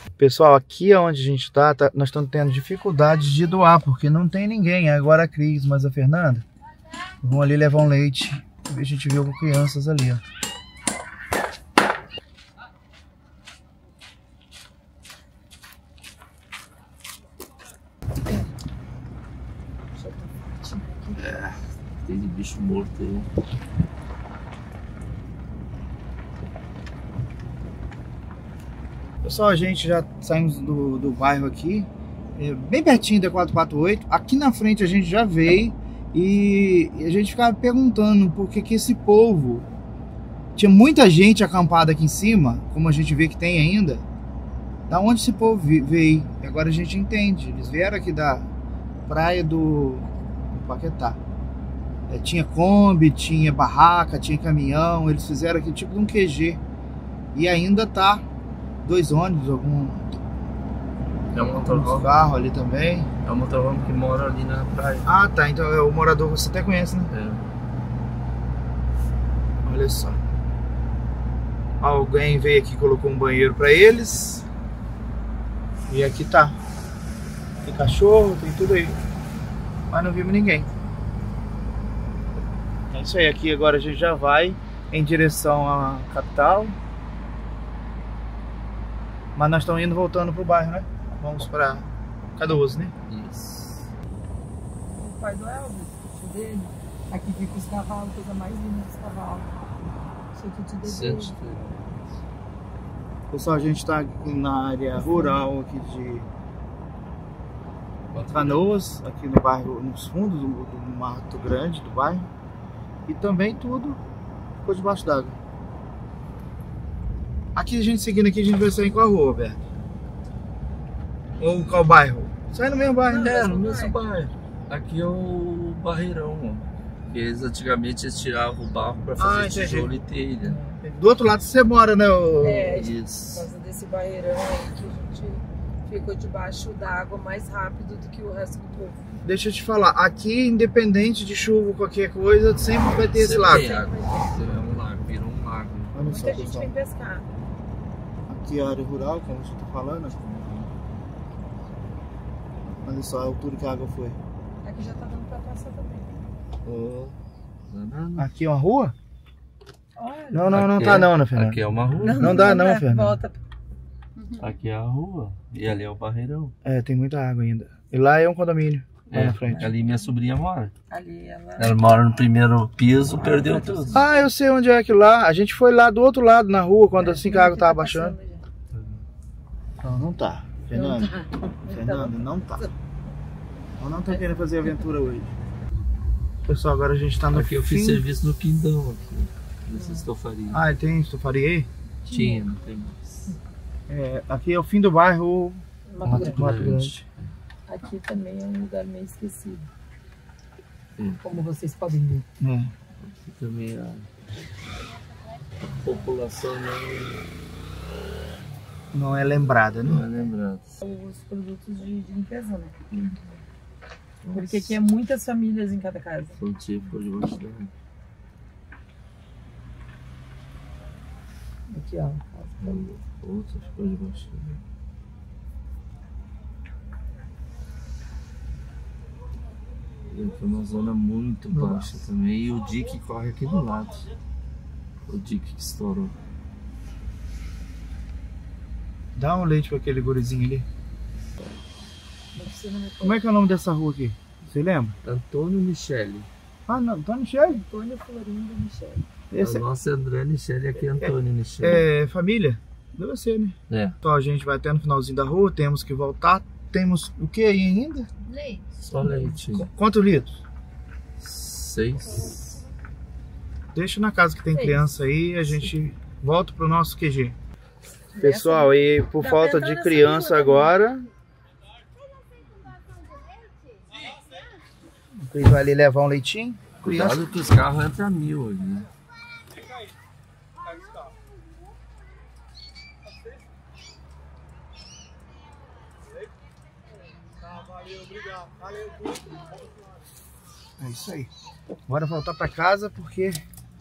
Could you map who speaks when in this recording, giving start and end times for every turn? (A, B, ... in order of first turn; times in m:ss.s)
0:00.2-0:06.4 A
0:07.2-0:10.2 A
0:19.9-0:21.3 B
0:21.3-0:23.3 C
0:29.2-0:39.6 A
0:40.6-0:44.0 A
0:44.9-0:48.5 A
0:49.1-0:51.2 A
0:52.1-0:56.6 A
0:57.3-0:58.2 A
0:58.8-1:00.2 A
1:01.3-1:02.1 C
1:01.3-1:03.1 A
1:03.2-1:05.1 C
1:05.0-1:07.1 A
1:07.1-1:07.4 C
1:09.6-1:10.2 A
1:11.8-1:14.4 A
1:15.9-1:16.6 A
1:17.6-1:19.0 A
1:19.9-1:20.7 A
1:22.9-1:26.8 A
1:29.4-1:32.9 A
1:33.1-1:33.9 C
1:34.9-1:39.5 B
1:40.3-1:41.4 B
1:40.8-1:42.0 C
1:43.3-1:46.3 A
1:44.9-1:45.4 B
1:48.1-1:48.6 C
1:48.3-1:52.3 A
1:53.1-1:54.0 A
1:54.6-1:55.4 A
1:57.5-1:59.6 A
2:01.4-2:03.6 A
2:03.0-2:04.0 B
2:03.1-2:10.6 C
2:09.2-2:09.9 A
2:10.4-2:10.8 B
2:10.8-2:12.8 A
2:12.4-2:19.0 B
2:12.7-2:13.4 C
2:19.2-2:23.8 A
2:23.0-2:26.0 C
2:23.4-2:24.3 B
2:25.9-2:26.7 A
2:26.0-2:27.2 B
2:28.3-2:30.7 A
2:32.8-2:34.2 A
2:34.6-2:36.1 B
2:36.6-2:37.1 C
2:37.7-2:38.3 C
2:38.2-2:38.9 A
2:40.0-2:40.6 B
2:40.3-2:43.2 A
2:40.5-2:42.6 C
2:42.0-2:43.4 B
2:44.4-2:46.5 C
2:46.6-2:49.7 A
2:49.1-2:50.7 C
2:50.9-2:51.8 B
2:51.6-2:54.0 C
2:53.2-2:54.2 B
2:53.9-2:58.2 A
2:56.9-2:58.4 B
2:58.7-2:59.0 C
2:59.8-3:01.1 A
3:00.7-3:02.7 B
3:01.7-3:02.6 A
3:03.8-3:05.3 A
3:06.4-3:08.0 A
3:07.3-3:10.6 C
3:09.7-3:10.1 B
3:10.5-3:11.7 A
3:12.0-3:12.5 B
3:12.1-3:13.3 C
3:13.9-3:17.0 A
3:15.9-3:16.5 B
3:16.0-3:17.1 C
3:17.7-3:19.7 B
3:21.0-3:21.4 C
3:21.2-3:22.2 B
3:22.4-3:22.7 A
3:23.0-3:24.0 C
3:25.8-3:27.3 C
3:28.9-3:30.3 A
3:29.8-3:30.8 C
3:30.8-3:33.2 B
3:34.2-3:34.7 C
3:34.3-3:36.4 B
3:36.4-3:37.7 C
3:41.7-3:42.8 B
3:42.6-3:44.6 C
3:50.1-3:54.1 C
3:51.5-3:51.9 A
3:55.0-3:56.1 C
3:59.2-4:00.6 A
4:02.3-4:03.2 B
4:03.0-4:05.0 A
4:05.0-4:06.3 C
4:06.7-4:07.6 A
4:07.5-4:09.0 B
4:09.3-4:09.6 A
4:09.4-4:11.8 C
4:11.0-4:18.1 A
4:13.7-4:13.9 C
4:18.3-4:19.3 B
4:18.8-4:19.7 C
4:19.5-4:20.4 A
4:21.2-4:22.6 C
4:23.7-4:27.4 A
4:24.5-4:24.9 B
4:28.1-4:30.8 B
4:28.2-4:31.1 A
4:35.2-4:37.3 A
4:36.8-4:38.9 C
4:50.8-4:51.3 A
4:51.9-4:53.4 A